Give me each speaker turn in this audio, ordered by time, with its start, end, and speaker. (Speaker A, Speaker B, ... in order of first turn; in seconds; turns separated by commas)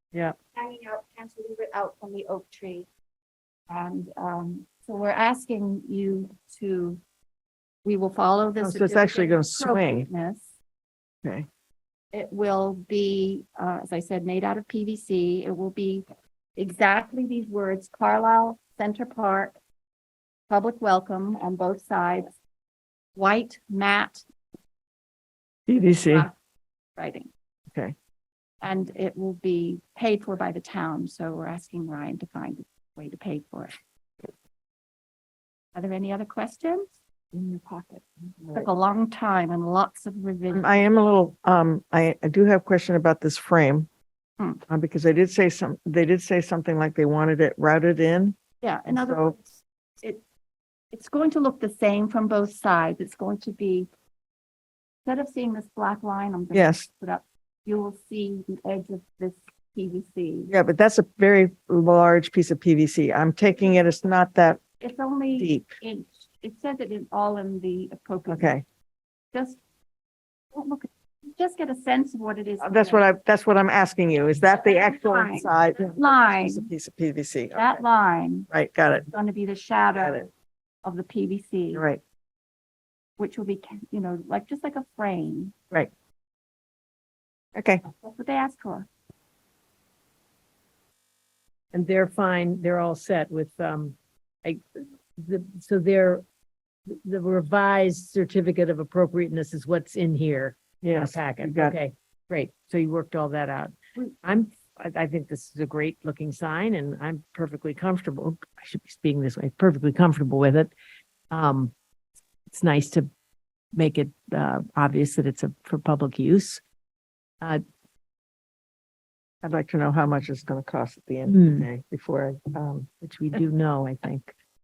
Speaker A: 0.5-2.9, Speaker A: 3.7-7.0, Speaker A: 7.8-10.4, Speaker B: 8.6-10.1, Speaker A: 12.1-16.1, Speaker A: 16.6-19.6, Speaker A: 20.5-22.3, Speaker A: 23.1-24.2, Speaker B: 25.7-26.3, Speaker A: 25.8-26.4, Speaker A: 27.0-27.3, Speaker A: 28.6-33.8, Speaker A: 35.8-36.9, Speaker B: 37.3-38.7, Speaker A: 38.5-40.8, Speaker B: 40.5-43.9, Speaker B: 44.7-48.4, Speaker A: 48.6-50.2, Speaker B: 48.9-49.4, Speaker A: 50.9-53.9, Speaker A: 55.0-60.5, Speaker B: 56.5-56.9, Speaker B: 60.5-64.6, Speaker A: 64.8-68.6, Speaker B: 65.4-65.8, Speaker B: 68.3-68.6, Speaker A: 69.3-69.6, Speaker A: 70.5-73.1, Speaker B: 72.6-77.8, Speaker A: 74.6-76.7, Speaker A: 77.5-78.5, Speaker B: 78.5-79.1, Speaker A: 79.1-80.3, Speaker B: 80.0-80.2, Speaker A: 80.8-81.9, Speaker B: 81.7-82.0, Speaker A: 83.2-85.5, Speaker B: 87.5-87.8, Speaker A: 88.0-88.9, Speaker C: 91.7-96.2, Speaker C: 96.9-110.7, Speaker B: 100.8-101.8, Speaker C: 111.3-111.7, Speaker C: 112.5-113.1, Speaker C: 113.8-116.6, Speaker B: 119.4-122.9, Speaker C: 121.3-121.7, Speaker C: 123.0-124.3